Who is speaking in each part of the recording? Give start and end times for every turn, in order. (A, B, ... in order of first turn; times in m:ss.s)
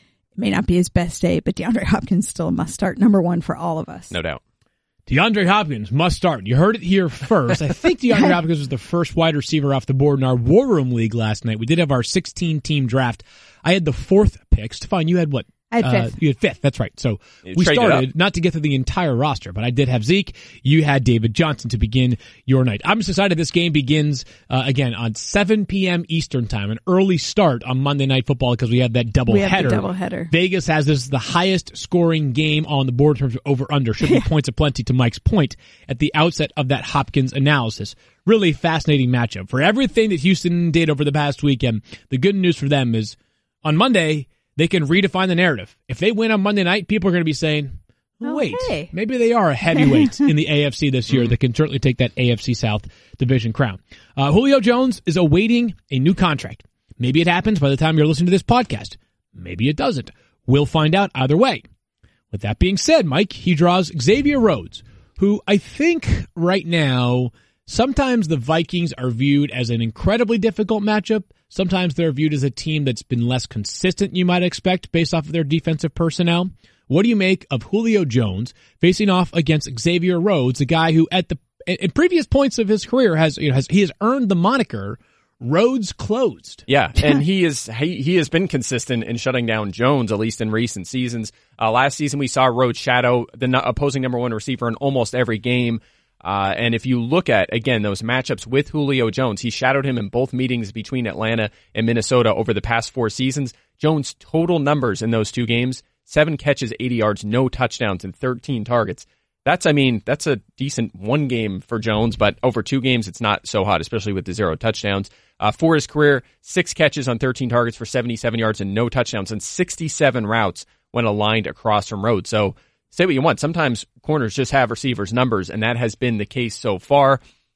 0:00.4-0:04.1 A
0:04.1-0:04.4 B
0:05.1-1:01.6 C
0:15.7-0:16.1 A
0:17.5-0:18.1 B
0:29.3-0:30.3 A
0:48.2-0:48.9 A
1:02.3-1:26.6 C
1:26.7-2:07.2 B